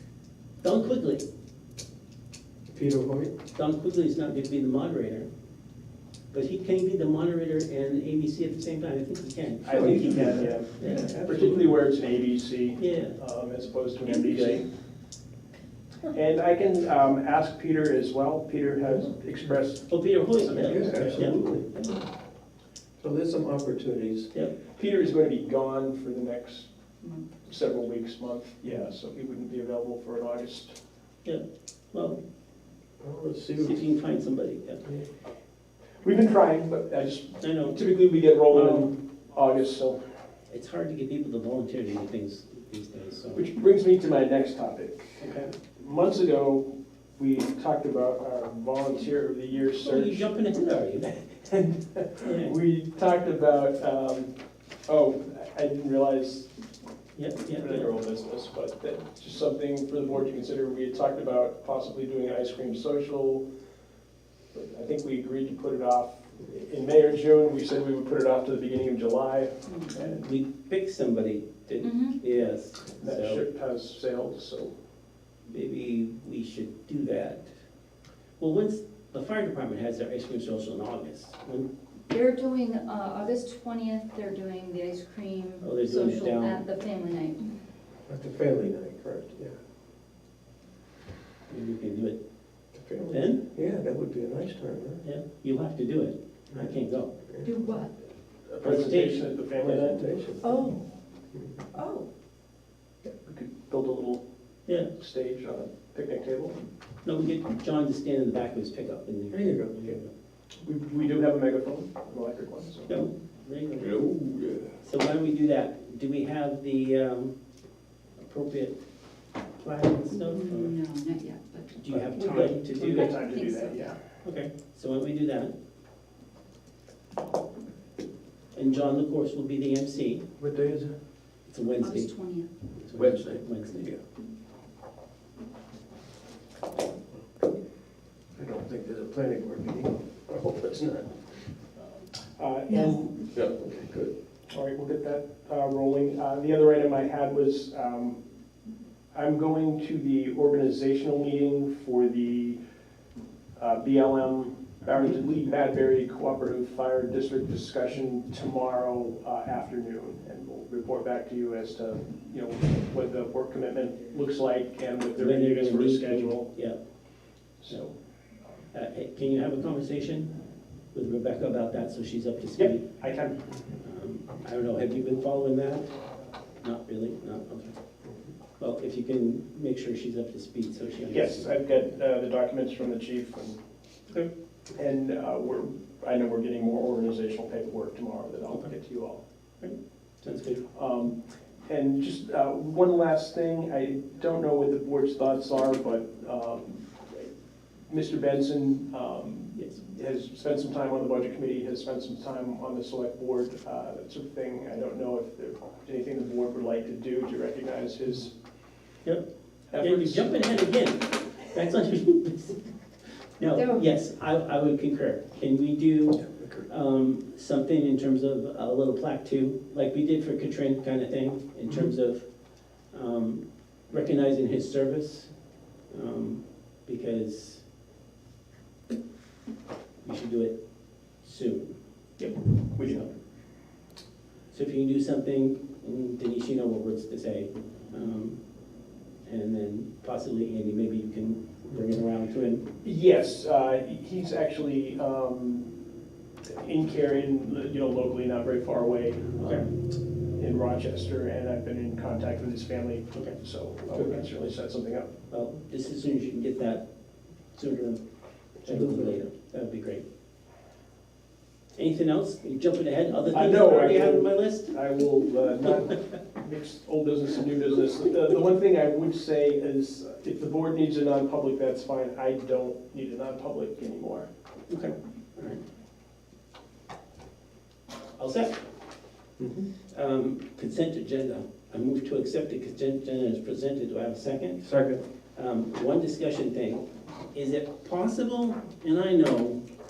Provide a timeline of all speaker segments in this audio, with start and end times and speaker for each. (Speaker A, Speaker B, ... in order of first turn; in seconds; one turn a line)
Speaker A: 0.6-1.2
Speaker B: 2.7-3.4
Speaker A: 3.5-5.3
Speaker A: 6.3-11.1
Speaker C: 9.6-14.7
Speaker B: 9.7-11.8
Speaker A: 12.8-13.2
Speaker A: 14.1-14.6
Speaker C: 16.1-19.9
Speaker A: 19.9-22.0
Speaker B: 20.5-21.7
Speaker B: 23.0-24.3
Speaker C: 24.7-26.7
Speaker D: 27.0-27.3
Speaker C: 27.4-30.8
Speaker A: 31.2-32.2
Speaker B: 33.0-33.9
Speaker A: 33.6-34.9
Speaker C: 36.0-40.0
Speaker A: 37.4-37.8
Speaker A: 38.5-38.9
Speaker A: 40.5-43.5
Speaker C: 43.3-50.3
Speaker A: 45.2-45.5
Speaker A: 49.8-52.5
Speaker C: 52.2-54.3
Speaker C: 54.9-56.5
Speaker A: 57.1-57.9
Speaker C: 57.5-63.5
Speaker C: 64.5-70.1
Speaker D: 69.7-70.1
Speaker A: 70.0-73.5
Speaker D: 71.8-72.2
Speaker C: 73.0-74.7
Speaker A: 75.5-77.5
Speaker A: 78.4-81.7
Speaker D: 82.1-87.5
Speaker A: 85.6-86.6
Speaker B: 88.1-89.5
Speaker A: 91.5-92.2
Speaker B: 92.7-95.0
Speaker A: 93.1-93.4
Speaker A: 95.0-97.2
Speaker D: 97.4-98.0
Speaker C: 98.5-100.1
Speaker A: 98.6-99.3
Speaker B: 99.6-100.5
Speaker D: 100.4-100.8
Speaker D: 101.8-102.1
Speaker C: 103.2-104.2
Speaker C: 104.9-106.6
Speaker A: 107.0-110.1
Speaker B: 109.3-110.0
Speaker C: 110.6-113.0
Speaker A: 112.9-114.0
Speaker B: 113.8-114.8
Speaker A: 114.8-117.3
Speaker A: 118.2-118.8
Speaker A: 119.6-120.8
Speaker D: 120.1-123.9
Speaker A: 121.8-123.2
Speaker C: 122.1-124.0
Speaker A: 124.2-125.5
Speaker A: 128.5-130.2
Speaker B: 130.4-130.9
Speaker A: 131.5-132.1
Speaker D: 131.8-132.5
Speaker A: 132.8-133.9
Speaker B: 132.9-134.0
Speaker B: 137.2-137.5
Speaker B: 138.4-141.3
Speaker C: 142.4-143.3
Speaker D: 142.7-143.0
Speaker B: 143.3-144.1
Speaker C: 144.5-148.2
Speaker C: 149.1-152.6
Speaker C: 153.6-166.5
Speaker A: 165.2-166.8
Speaker C: 167.6-167.9
Speaker A: 168.7-170.3
Speaker A: 170.9-172.9
Speaker C: 172.6-173.4
Speaker A: 173.8-175.9
Speaker A: 176.6-177.7
Speaker A: 178.6-181.5
Speaker C: 181.1-183.6
Speaker C: 184.7-189.2
Speaker A: 189.6-190.6
Speaker C: 190.7-197.3
Speaker C: 197.9-208.3
Speaker A: 209.1-212.6
Speaker C: 209.7-210.5
Speaker A: 213.4-222.3
Speaker D: 213.6-213.9
Speaker B: 216.1-216.7
Speaker A: 222.9-225.3
Speaker A: 225.9-227.6
Speaker A: 230.0-230.6
Speaker A: 231.2-231.7
Speaker C: 232.2-233.1
Speaker A: 232.8-233.1
Speaker A: 234.5-238.4
Speaker A: 239.2-242.7
Speaker C: 242.8-245.7
Speaker C: 246.4-249.7
Speaker A: 249.4-249.7
Speaker C: 250.4-255.1
Speaker A: 253.9-254.2
Speaker A: 255.3-256.9
Speaker A: 257.5-258.0
Speaker A: 258.6-260.1
Speaker B: 258.6-259.2
Speaker A: 261.8-264.8
Speaker C: 263.3-274.3
Speaker A: 274.7-275.6
Speaker A: 278.2-278.6
Speaker B: 279.4-279.7
Speaker A: 279.9-284.7
Speaker B: 284.6-285.0
Speaker A: 285.4-289.6